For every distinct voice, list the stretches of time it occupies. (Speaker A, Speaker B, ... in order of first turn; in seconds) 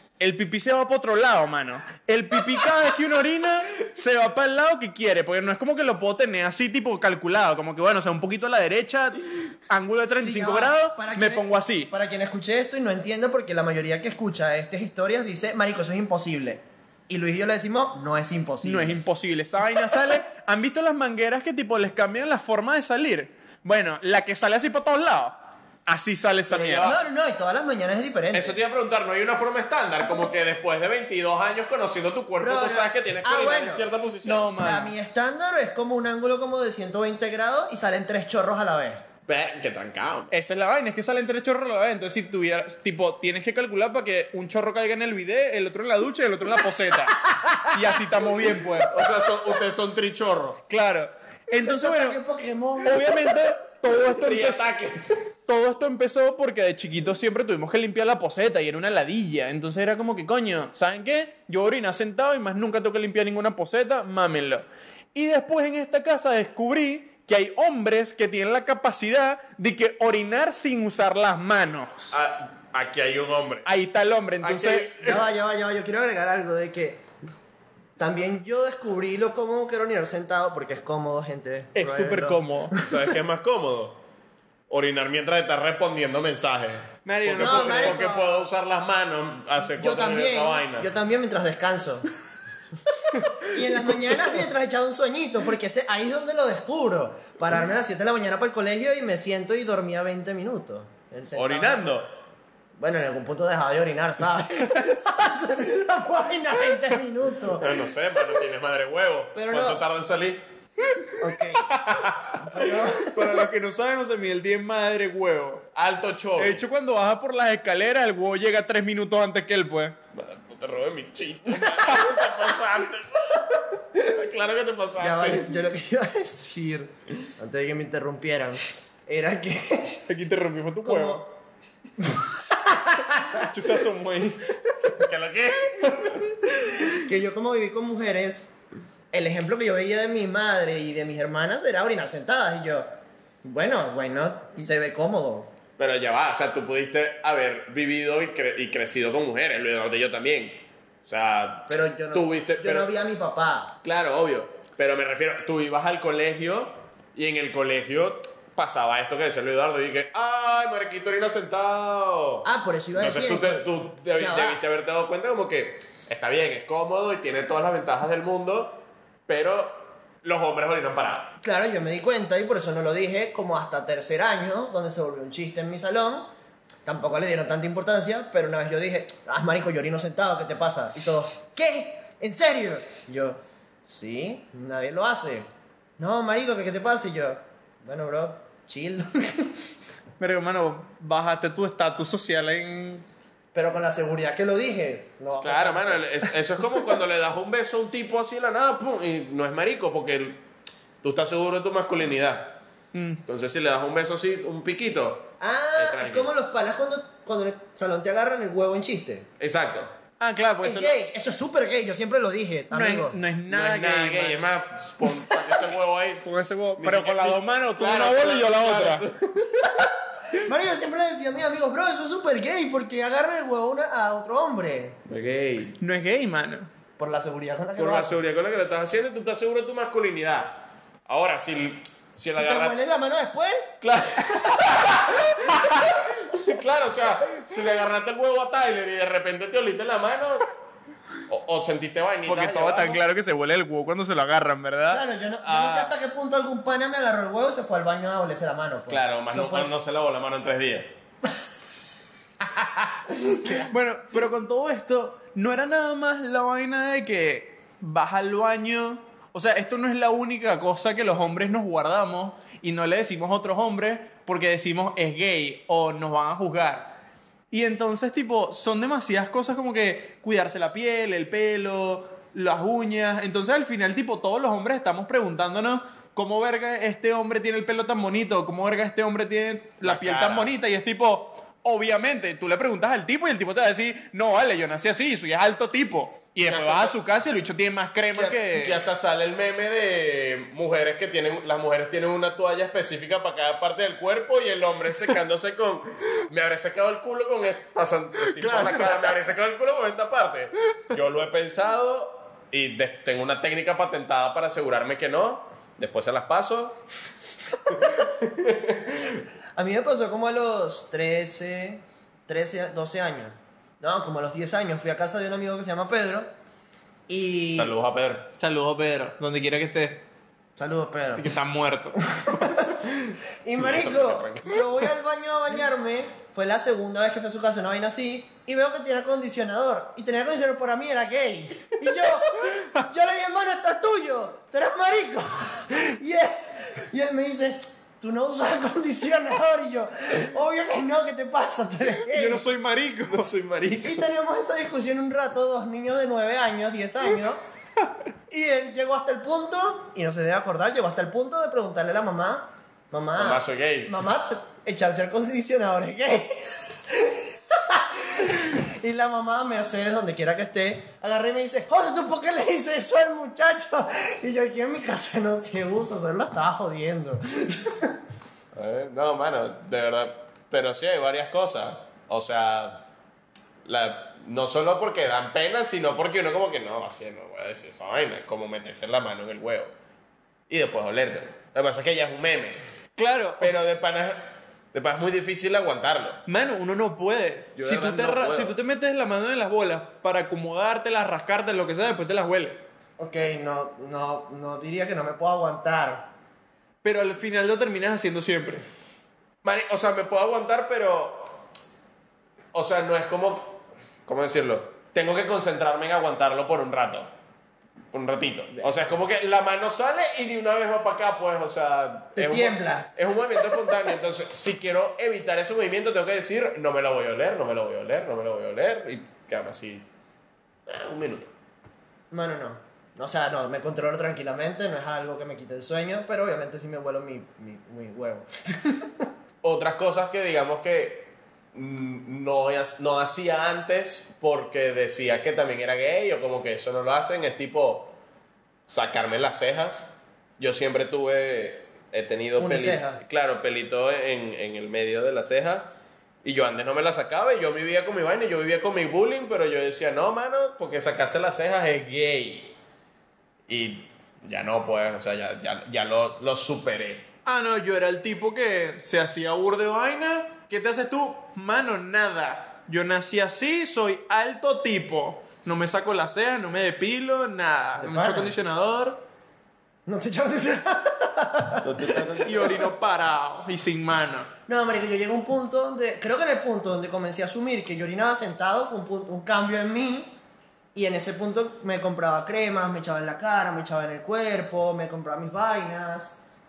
Speaker A: 0.2-11.9, 18.6-25.4, 25.9-26.9, 34.2-35.0, 40.3-48.9, 50.7-52.2, 52.8-54.7, 55.5-64.6, 65.2-72.2, 73.7-75.2, 81.8-82.8, 87.0-88.0, 113.0-115.7, 116.4-120.0, 130.1-131.3, 133.4-134.6, 190.2-193.1, 202.9-203.2, 210.2-210.9, 212.7-214.4, 216.2-219.1, 225.8-226.7, 234.2-234.7, 242.3-245.9, 253.5-267.0, 267.5-288.8, 298.4-299.0, 318.4-320.0, 321.2-322.0, 342.1-344.0, 383.0-383.6, 386.3-392.6, 396.8-398.7, 457.2-469.0, 472.2-474.3
Speaker B: 10.2-19.0, 26.8-28.6, 32.4-33.9, 34.5-39.0, 47.4-47.8, 51.5-53.4, 75.0-77.0, 78.0-82.9, 87.4-88.5, 89.8-92.1, 93.5-102.0, 102.8-107.8, 109.3-109.8, 111.2-111.7, 112.3-113.4, 125.0-130.0, 130.8-131.2, 132.0-133.5, 136.9-138.5, 139.1-142.9, 143.4-145.5, 151.7-153.8, 162.4-164.6, 171.4-176.3, 176.8-185.5, 186.0-189.6, 193.5-196.3, 205.4-209.3, 210.6-213.2, 220.4-225.0, 227.0-228.2, 232.3-233.7, 244.9-249.7, 253.1-253.7, 309.6-316.3, 317.1-317.7, 320.6-321.3, 322.1-322.9, 323.4-342.5, 343.8-347.4, 348.3-368.0, 393.0-396.1, 412.2-412.9, 422.1-429.1, 442.4-443.0, 467.8-468.4, 469.9-472.2, 474.5-480.2, 480.8-486.2
Speaker C: 26.5-27.0, 28.3-34.5, 39.3-40.3, 48.9-50.6, 54.2-55.1, 72.1-73.7, 74.4-75.2, 82.8-84.0, 84.7-90.9, 101.3-102.1, 107.6-110.4, 111.9-112.4, 115.8-116.6, 120.1-125.5, 134.9-136.2, 145.8-152.9, 153.8-171.3, 195.3-200.4, 201.0-202.6, 203.3-206.3, 209.4-209.9, 213.5-216.2, 216.8-219.7, 225.1-225.8, 227.8-232.8, 233.8-240.4, 241.3-243.0, 248.9-250.9, 279.8-280.5, 286.4-286.9, 288.1-306.8, 307.7-309.2, 317.5-318.3, 323.6-324.6, 353.2-353.9, 368.6-372.9, 373.6-379.7, 380.5-382.6, 383.4-386.2, 387.6-388.6, 399.4-401.4, 402.5-407.1, 407.9-419.9, 420.7-421.3, 429.4-437.9, 438.7-445.7, 446.2-452.6, 453.5-457.1, 471.6-472.6